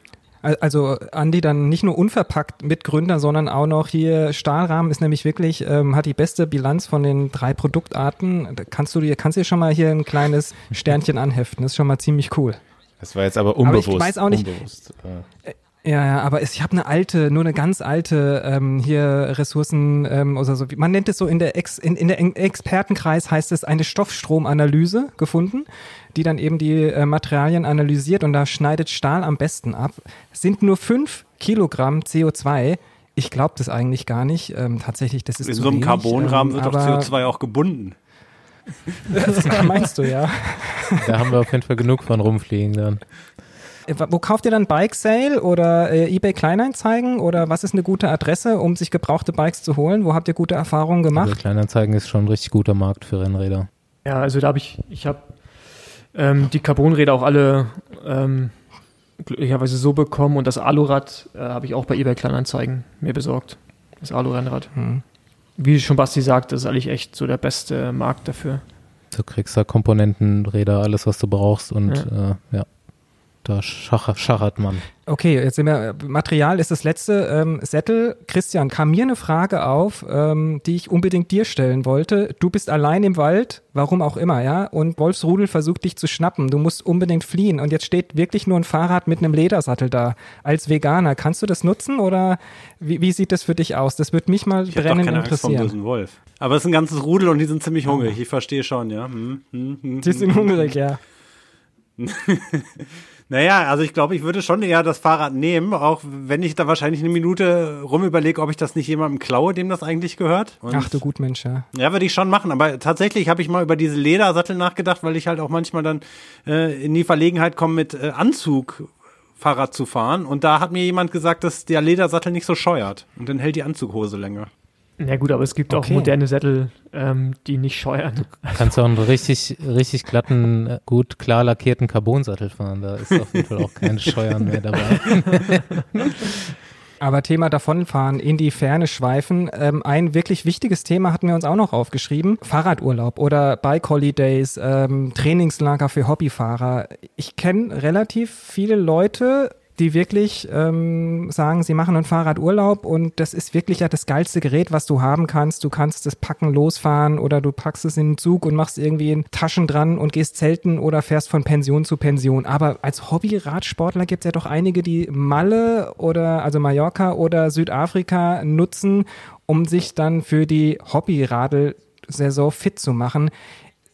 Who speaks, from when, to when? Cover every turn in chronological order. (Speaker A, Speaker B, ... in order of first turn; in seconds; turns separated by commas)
Speaker A: 0.4-12.6, Speaker B: 13.0-15.2, Speaker A: 13.6-14.5, Speaker A: 15.4-37.1, Speaker C: 35.4-38.0, Speaker A: 39.1-41.1, Speaker D: 41.0-43.0, Speaker A: 43.9-51.4, Speaker D: 51.1-53.7, Speaker E: 54.0-55.3, Speaker E: 56.1-58.6, Speaker E: 59.2-64.7, Speaker A: 64.7-65.0, Speaker E: 65.6-68.6, Speaker D: 69.1-72.7, Speaker D: 73.4-74.9, Speaker A: 75.1-95.7, Speaker C: 94.7-100.7, Speaker A: 97.9-98.1, Speaker A: 100.0-101.0, Speaker C: 102.0-111.0, Speaker A: 110.7-111.7, Speaker C: 111.7-124.5, Speaker E: 125.0-128.8, Speaker A: 125.7-126.1, Speaker D: 128.5-136.2, Speaker A: 137.0-173.3